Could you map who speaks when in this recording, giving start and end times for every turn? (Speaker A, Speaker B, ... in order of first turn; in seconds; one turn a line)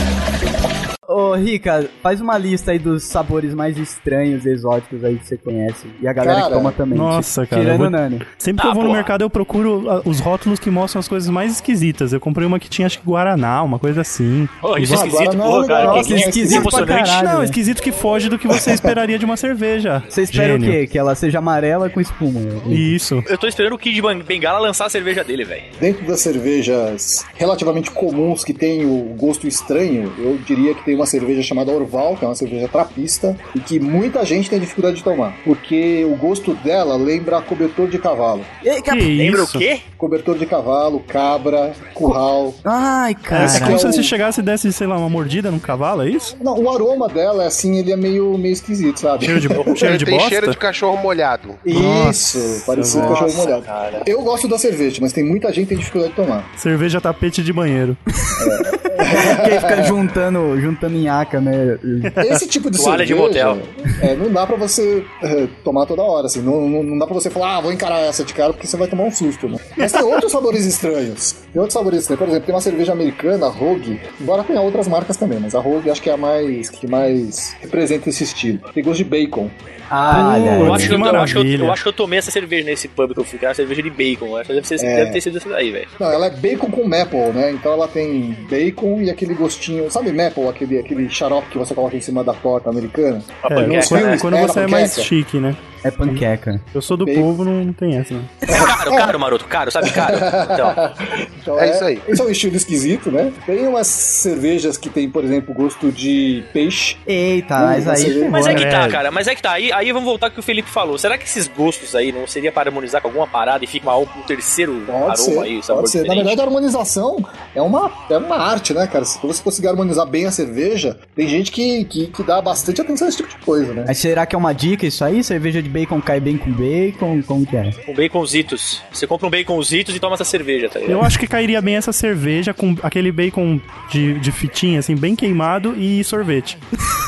Speaker A: 1.1-8.2
Speaker B: 6.2-6.8
Speaker C: 6.9-15.1
Speaker D: 8.6-9.1
Speaker D: 14.6-17.2
Speaker B: 14.9-16.9
Speaker A: 15.8-17.6
Speaker C: 16.6-20.8
Speaker A: 20.1-22.9
Speaker C: 22.7-23.3
Speaker D: 23.3-25.7
Speaker B: 25.8-38.5
Speaker A: 38.6-39.1
Speaker C: 38.9-39.7
Speaker D: 38.9-39.9
Speaker B: 40.0-42.6
Speaker A: 42.1-43.9
Speaker C: 43.3-46.4
Speaker B: 43.4-44.1
Speaker B: 46.4-49.8
Speaker C: 49.2-50.6
Speaker E: 49.8-51.6
Speaker B: 51.6-56.5
Speaker C: 51.7-53.1
Speaker D: 52.9-54.1
Speaker A: 53.0-53.2
Speaker C: 56.6-58.0
Speaker B: 58.4-59.9
Speaker A: 58.4-62.1
Speaker B: 62.2-79.6
Speaker D: 62.8-63.6
Speaker C: 69.8-70.2
Speaker A: 79.9-81.0
Speaker D: 80.1-85.9
Speaker C: 80.1-81.8
Speaker B: 84.8-85.2
Speaker B: 86.0-95.1
Speaker D: 93.4-94.3
Speaker C: 93.5-98.4
Speaker A: 95.8-96.6
Speaker B: 97.0-97.3
Speaker D: 98.5-100.8
Speaker B: 98.5-99.1
Speaker B: 99.8-107.0
Speaker E: 101.6-102.1
Speaker A: 107.1-108.7
Speaker B: 107.6-108.6
Speaker D: 108.3-116.4
Speaker C: 108.4-109.0
Speaker B: 114.9-123.9
Speaker A: 123.9-127.8
Speaker D: 127.9-131.1
Speaker C: 130.9-136.6